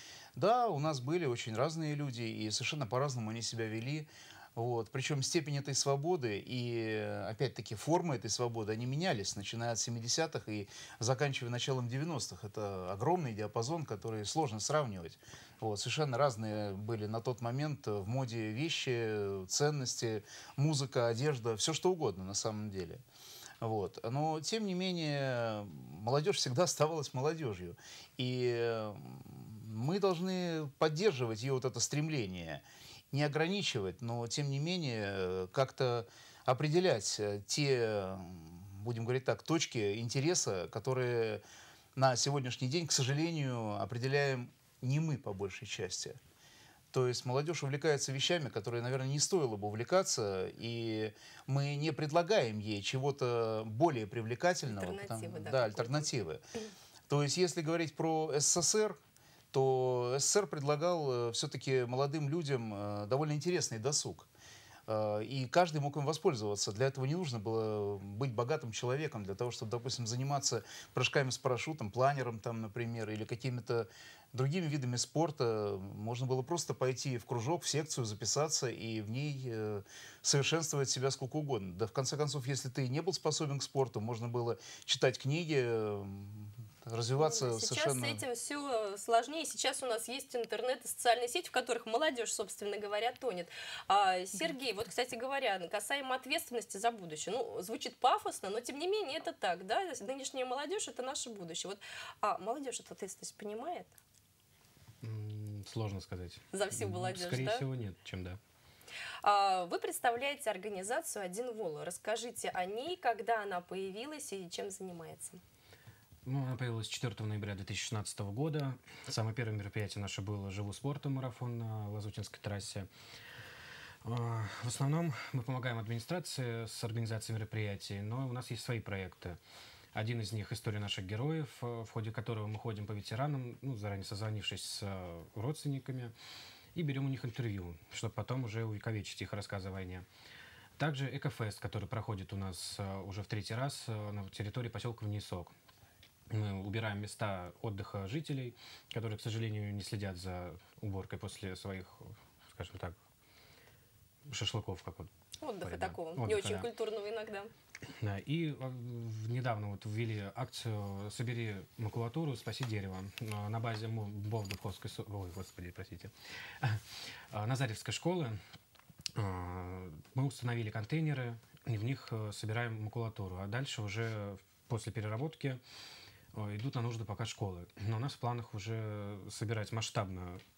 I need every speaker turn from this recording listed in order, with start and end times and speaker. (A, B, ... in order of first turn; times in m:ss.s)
0:00.4-0:23.0 A
0:23.6-0:41.4 A
0:42.0-0:46.2 A
0:46.9-0:56.4 A
0:54.7-0:56.1 B
0:57.1-0:59.0 A
0:59.5-1:04.3 A
1:04.9-1:28.2 A
1:27.2-1:43.9 B
1:45.0-1:48.4 C
1:46.5-1:47.6 B
1:49.2-1:55.4 B
1:56.3-2:02.9 C
2:04.0-2:09.4 C
2:09.9-2:16.1 C
2:16.8-2:20.1 C
2:20.8-2:25.5 C
2:26.3-2:33.0 C
2:34.3-2:35.1 C
2:35.4-2:37.5 B
2:35.6-2:36.7 C
2:38.0-2:46.8 C
2:47.3-2:48.4 C
2:49.2-2:55.6 C
2:56.3-3:00.4 C